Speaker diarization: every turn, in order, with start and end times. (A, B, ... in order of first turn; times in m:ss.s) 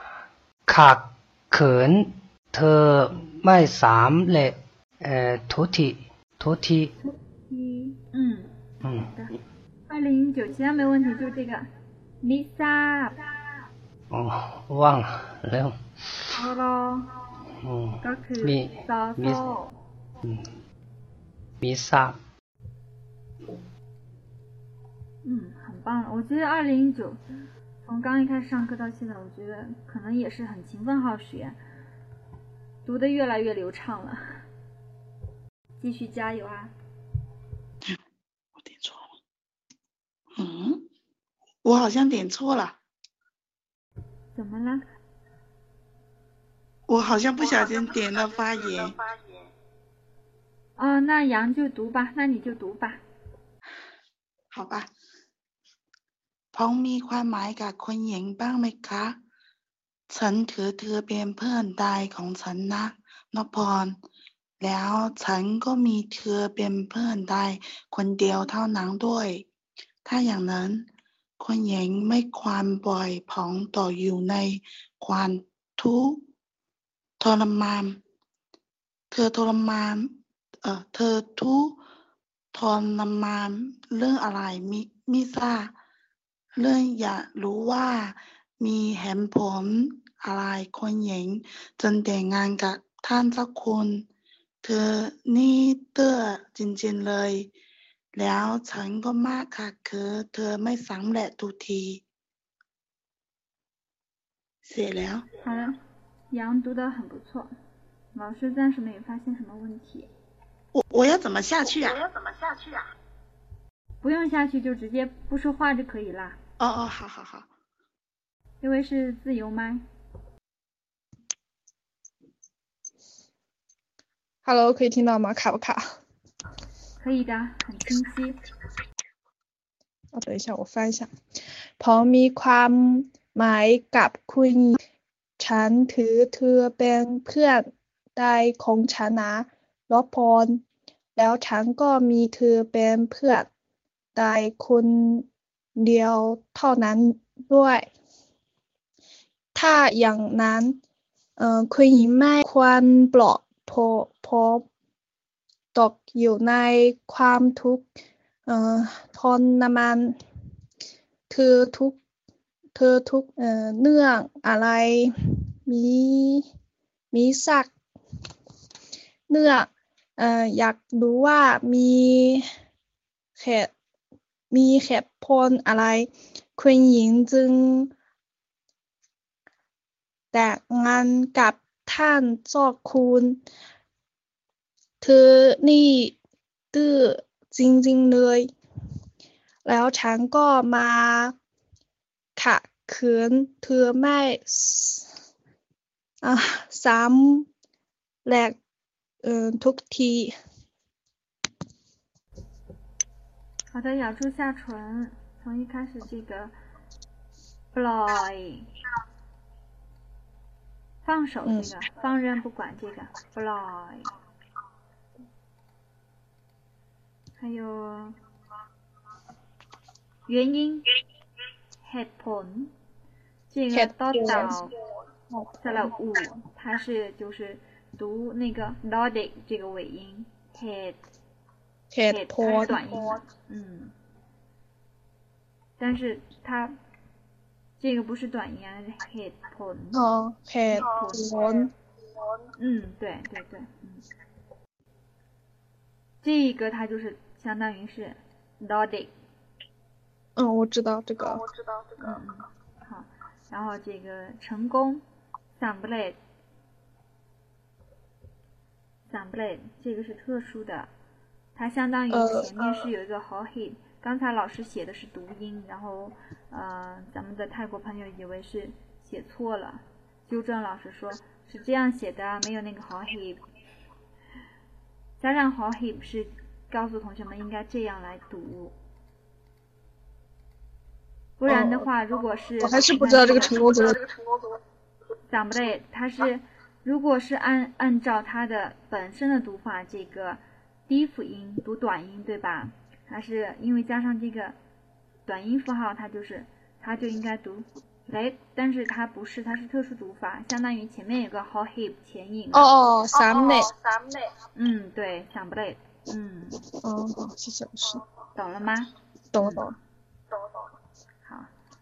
0:00.7-0:06.9 A
0:07.0-0:09.3 B
0:08.8-0:09.1 A
0:09.9-0:11.6 B
0:12.2-0:13.2 B
0:14.1-0:15.8 A
0:16.3-0:17.1 B
0:17.6-0:19.4 A
0:18.0-0:19.7 B
0:20.2-0:20.6 A
0:21.6-0:22.2 A
0:25.2-0:27.2 B
0:27.8-0:31.6 B
0:32.8-0:34.4 B
0:35.8-0:36.7 B
0:38.6-0:39.1 C
0:40.4-0:40.8 C
0:41.6-0:42.8 C
0:44.3-0:44.8 B
0:46.9-0:49.0 C
0:50.8-0:53.0 B
0:54.5-0:54.9 C
0:56.5-0:59.2 C
1:00.1-1:04.0 C
1:04.6-1:09.4 C
1:10.0-1:10.8 C
1:11.4-1:16.2 C
1:17.2-1:18.0 C
1:19.1-1:20.1 C
1:20.6-1:21.8 C
1:22.5-1:25.7 C
1:26.5-1:34.0 C
1:34.6-1:37.5 C
1:38.1-1:42.0 C
1:44.6-1:45.3 C
1:45.4-1:45.8 B
1:46.3-1:47.5 B
1:48.1-1:50.1 B
1:50.7-1:52.1 C
1:54.0-1:56.4 B
1:56.6-1:57.5 C
1:58.6-1:59.8 B
2:04.4-2:05.8 D
2:07.0-2:08.4 B
2:10.1-2:11.1 D
2:11.8-2:14.8 D
2:15.4-2:20.6 D
2:21.2-2:23.5 D
2:24.2-2:25.2 D
2:25.8-2:27.9 D
2:29.5-2:30.8 D
2:31.4-2:34.6 D
2:35.7-2:37.9 D
2:38.5-2:40.2 D
2:41.3-2:42.0 D
2:42.7-2:45.1 D
2:45.6-2:46.4 D
2:47.1-2:47.7 D
2:49.3-2:52.5 D
2:53.4-2:53.7 D
2:54.5-2:57.9 D
3:00.3-3:03.4 D
3:05.0-3:06.1 D
3:06.7-3:08.5 D
3:09.6-3:11.3 D
3:12.4-3:15.1 D
3:16.2-3:17.5 D
3:18.2-3:18.6 D
3:19.2-3:20.3 D
3:23.7-3:26.5 B
3:27.7-3:28.6 B
3:31.0-3:34.1 B
3:37.4-3:38.2 B
3:40.3-3:40.8 B
3:41.8-3:42.7 B
3:43.5-3:44.7 B
3:43.7-3:44.6 D
3:45.6-3:51.0 B
3:51.9-3:53.0 D
3:52.1-3:53.9 B
3:55.8-3:56.7 B
3:57.8-4:00.0 B
3:59.9-4:01.7 D
4:00.7-4:01.5 B
4:02.6-4:04.0 B
4:06.2-4:09.1 B
4:10.4-4:11.4 D
4:12.0-4:15.0 B
4:15.6-4:16.2 B
4:19.1-4:20.9 B
4:21.6-4:33.4 B
4:22.1-4:22.5 D
4:35.2-4:38.7 B
4:41.4-4:43.9 B
4:41.5-4:41.8 D
4:42.6-4:44.0 D
4:45.3-4:54.6 B
4:55.2-5:02.7 B
5:02.5-5:03.7 D
5:04.5-5:06.6 B
5:06.8-5:08.0 D
5:08.3-5:09.7 B
5:09.3-5:09.7 D
5:11.2-5:11.5 B